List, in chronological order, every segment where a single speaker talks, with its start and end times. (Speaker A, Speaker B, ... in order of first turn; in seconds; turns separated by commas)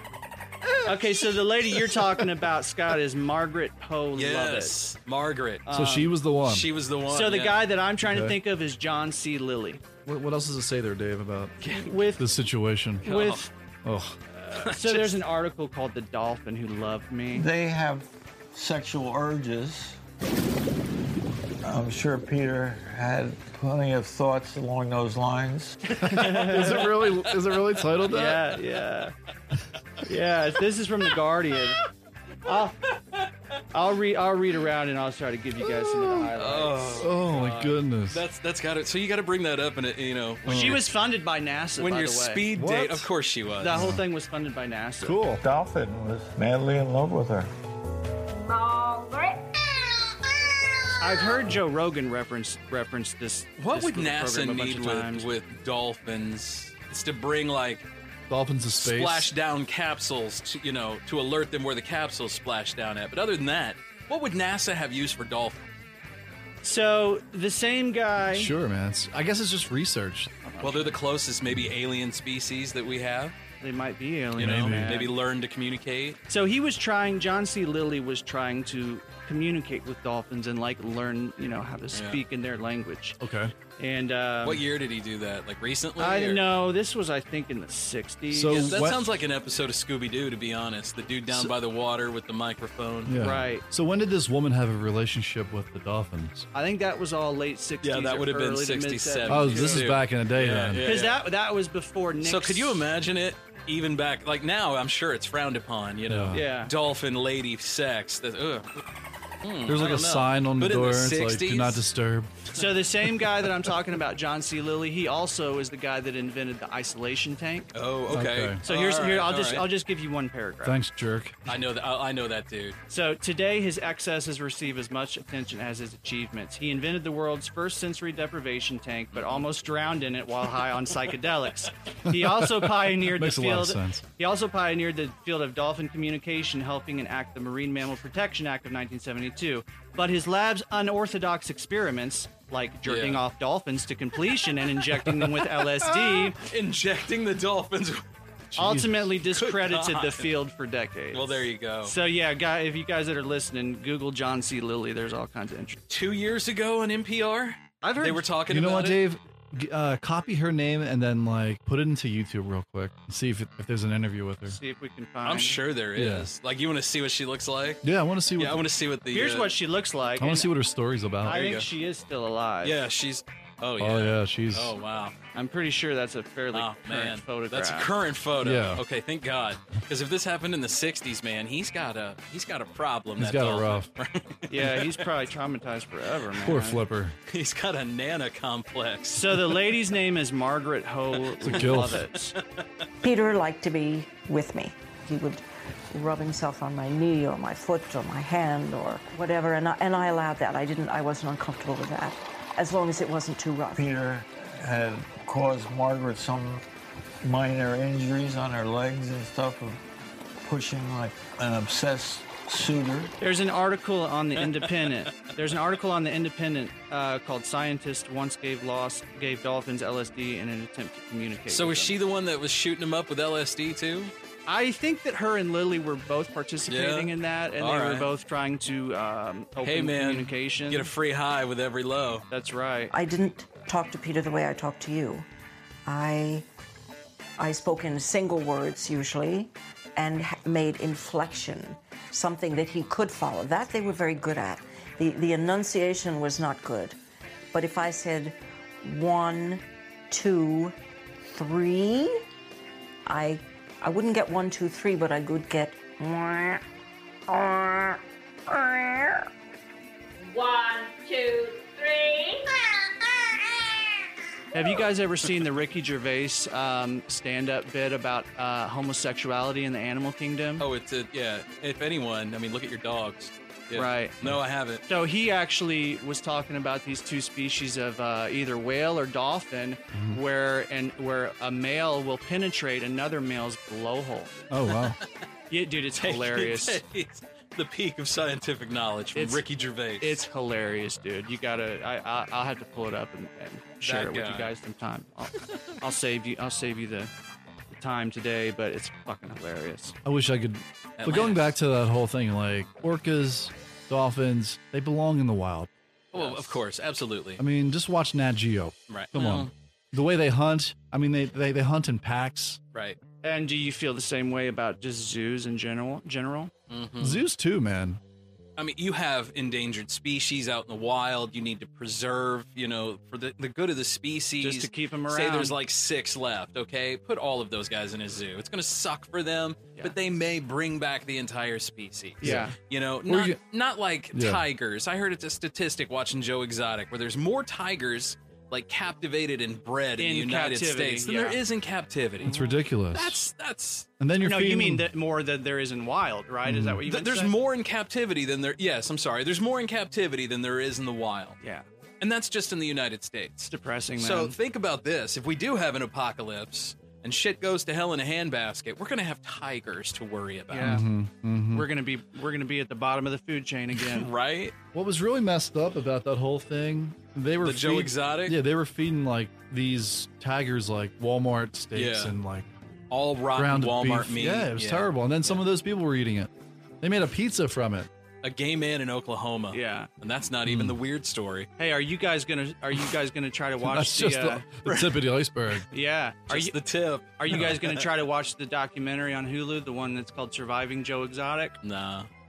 Speaker A: 0.8-4.7, Speaker B: 4.2-5.7, Speaker A: 5.7-6.2, Speaker C: 5.7-6.7, Speaker B: 6.4-7.7, Speaker A: 7.1-9.8, Speaker C: 8.0-8.4, Speaker C: 10.0-11.6, Speaker B: 11.6-12.1, Speaker A: 11.7-12.2, Speaker C: 12.2-13.2, Speaker A: 13.0-13.5, Speaker B: 13.0-13.5, Speaker C: 13.8-14.2, Speaker A: 14.4-17.5, Speaker B: 14.5-15.2, Speaker D: 17.3-20.0, Speaker D: 21.6-26.0, Speaker A: 25.9-26.9, Speaker C: 26.0-28.4, Speaker A: 28.1-29.1, Speaker A: 30.0-31.8, Speaker A: 32.4-32.8, Speaker B: 32.9-33.3, Speaker A: 33.7-37.1, Speaker C: 35.6-36.3, Speaker B: 36.4-40.9, Speaker C: 37.0-38.2, Speaker C: 40.5-40.8, Speaker A: 40.5-42.4, Speaker B: 41.8-43.9, Speaker C: 42.5-43.1, Speaker A: 43.6-45.2, Speaker C: 43.7-44.0, Speaker C: 45.0-45.4, Speaker D: 45.4-47.5, Speaker E: 48.3-49.5, Speaker A: 51.0-55.3, Speaker B: 53.6-57.9, Speaker C: 58.3-59.3, Speaker B: 58.8-65.6, Speaker A: 66.6-68.5, Speaker C: 68.2-70.3, Speaker A: 70.4-71.0, Speaker B: 70.6-73.3, Speaker A: 73.6-75.1, Speaker B: 74.3-76.2, Speaker C: 74.4-75.0, Speaker A: 76.3-83.2, Speaker B: 81.9-82.2, Speaker C: 83.2-83.5, Speaker A: 83.8-84.6, Speaker B: 84.4-86.4, Speaker A: 86.0-88.8, Speaker C: 88.3-89.1, Speaker B: 88.5-93.2, Speaker C: 93.0-96.5, Speaker A: 93.2-93.6, Speaker A: 96.5-99.9, Speaker B: 97.8-101.2, Speaker C: 99.2-100.9, Speaker A: 100.8-102.8, Speaker B: 102.2-108.8, Speaker C: 106.1-106.4, Speaker A: 106.3-106.7, Speaker B: 109.4-111.8, Speaker C: 109.7-112.5, Speaker A: 112.5-117.7, Speaker B: 117.7-119.7, Speaker C: 118.1-118.6, Speaker A: 118.6-120.8, Speaker C: 120.6-121.4, Speaker B: 121.5-122.8, Speaker A: 122.9-146.4, Speaker B: 129.1-129.4, Speaker C: 132.1-134.0, Speaker B: 142.8-143.2, Speaker B: 146.3-148.0, Speaker C: 148.5-149.1, Speaker A: 148.6-155.8, Speaker B: 149.3-150.3, Speaker B: 151.1-151.9, Speaker B: 155.9-159.0, Speaker A: 157.8-158.2, Speaker C: 158.5-164.6, Speaker A: 164.5-165.6, Speaker B: 165.2-167.8, Speaker C: 165.9-166.3, Speaker C: 167.8-168.6, Speaker B: 168.4-169.5, Speaker A: 169.1-170.5, Speaker C: 170.2-171.4, Speaker A: 171.2-172.8, Speaker B: 171.2-171.7, Speaker B: 172.6-175.1, Speaker C: 173.8-174.7, Speaker A: 175.3-177.9, Speaker B: 176.5-185.0, Speaker C: 178.4-178.8, Speaker C: 183.2-183.9, Speaker A: 184.5-186.8, Speaker C: 186.3-187.2, Speaker B: 187.3-189.6, Speaker A: 189.1-192.3, Speaker C: 191.4-192.1, Speaker B: 191.4-192.4, Speaker F: 193.0-203.9, Speaker D: 203.8-206.6, Speaker D: 207.2-209.8, Speaker D: 210.4-213.1, Speaker A: 213.2-222.0, Speaker B: 221.5-224.1, Speaker A: 224.5-230.9, Speaker B: 226.7-228.1, Speaker B: 229.6-232.2, Speaker A: 232.3-232.9, Speaker F: 232.9-235.2, Speaker F: 235.8-236.4, Speaker F: 237.4-247.0, Speaker F: 247.5-252.2, Speaker F: 253.1-256.6, Speaker F: 257.3-259.2, Speaker E: 260.2-262.6, Speaker A: 264.5-270.6, Speaker B: 270.6-274.8, Speaker A: 273.7-274.2, Speaker A: 274.9-284.3, Speaker C: 279.9-280.2, Speaker C: 284.5-285.0, Speaker B: 284.8-285.1, Speaker A: 285.5-286.8, Speaker B: 286.0-290.2, Speaker A: 289.1-289.4, Speaker A: 290.0-297.1, Speaker B: 293.8-294.5, Speaker A: 297.7-299.9, Speaker C: 300.0-306.4, Speaker B: 301.0-301.5, Speaker B: 306.1-307.4, Speaker C: 307.4-312.6, Speaker B: 308.9-309.5, Speaker A: 313.2-316.5, Speaker B: 316.7-317.2, Speaker C: 317.0-318.0, Speaker B: 318.6-342.4, Speaker A: 324.4-325.5, Speaker A: 332.2-332.5, Speaker C: 332.2-332.5, Speaker C: 333.1-333.4, Speaker C: 334.1-334.4, Speaker A: 340.0-341.4, Speaker A: 342.2-342.6, Speaker C: 342.2-343.2, Speaker B: 342.9-343.9, Speaker C: 344.0-344.9, Speaker A: 344.2-347.3, Speaker C: 346.4-346.8, Speaker B: 346.9-351.4, Speaker A: 351.4-351.6, Speaker B: 352.0-360.8, Speaker A: 353.5-354.4, Speaker A: 360.5-360.8, Speaker C: 360.6-361.7, Speaker A: 361.5-364.1, Speaker B: 363.8-364.5, Speaker C: 364.7-372.5, Speaker B: 367.4-368.4, Speaker B: 371.7-372.1, Speaker B: 372.9-375.4, Speaker C: 373.3-377.9, Speaker B: 378.2-381.5, Speaker A: 379.5-379.9, Speaker C: 380.4-380.8, Speaker A: 381.6-384.4, Speaker C: 383.6-385.7, Speaker B: 384.6-385.0, Speaker A: 385.7-386.6, Speaker B: 386.3-387.9, Speaker A: 387.2-391.6, Speaker C: 387.3-387.6, Speaker B: 391.6-392.1